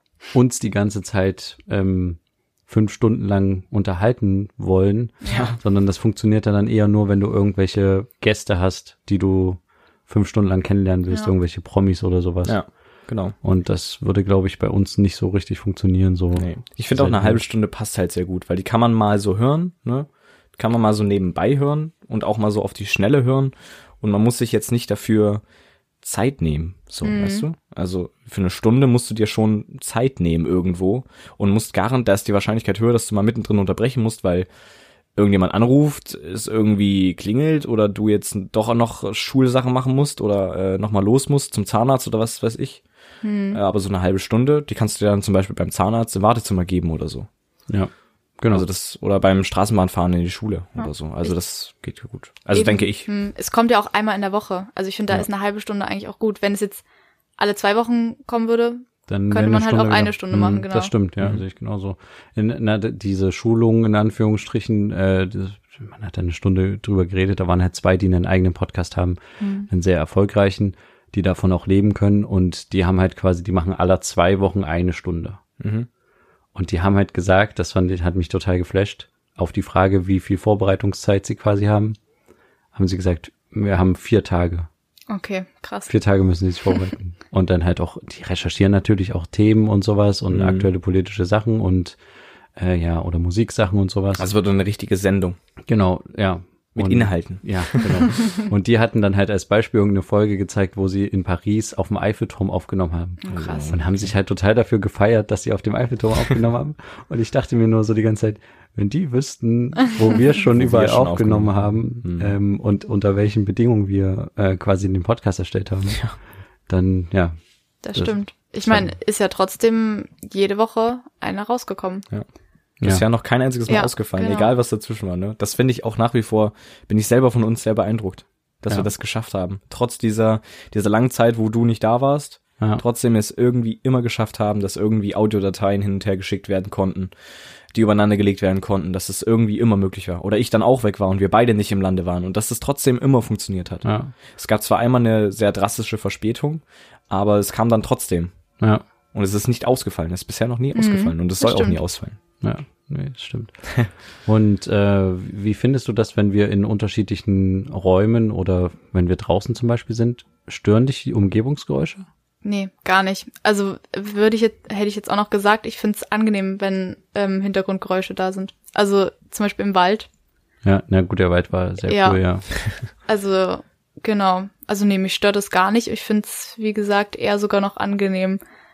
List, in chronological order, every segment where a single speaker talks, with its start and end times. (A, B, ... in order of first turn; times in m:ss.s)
0:00.3-0:17.4 A
0:05.2-0:05.5 B
0:05.3-0:05.6 C
0:12.4-0:13.4 C
0:16.4-0:25.4 C
0:26.0-0:34.5 C
0:27.0-0:27.5 B
0:35.2-0:42.8 C
0:43.2-0:43.6 B
0:43.5-0:47.3 C
0:47.7-0:48.7 A
0:48.5-0:53.1 C
0:50.8-0:51.3 B
0:52.5-0:56.8 B
0:57.4-1:00.9 B
0:59.1-1:15.4 A
1:09.4-1:09.7 B
1:15.6-1:15.9 C
1:16.6-1:22.0 A
1:22.7-1:24.7 A
1:25.1-1:25.9 B
1:25.9-1:32.0 A
1:30.3-1:30.7 C
1:32.6-1:34.3 A
1:34.2-1:35.4 C
1:35.7-1:57.4 A
1:36.8-1:38.1 C
1:43.2-1:43.7 B
1:43.3-1:44.1 C
1:50.5-1:52.3 C
1:57.8-2:02.1 B
1:57.9-1:58.9 A
2:02.8-2:17.1 C
2:03.7-2:04.5 B
2:17.7-2:28.3 C
2:23.8-2:24.1 A
2:29.1-2:32.2 C
2:30.8-2:31.8 B
2:32.4-2:42.1 A
2:42.4-2:50.1 B
2:50.6-2:52.5 A
2:51.9-2:52.2 B
2:53.1-2:58.4 B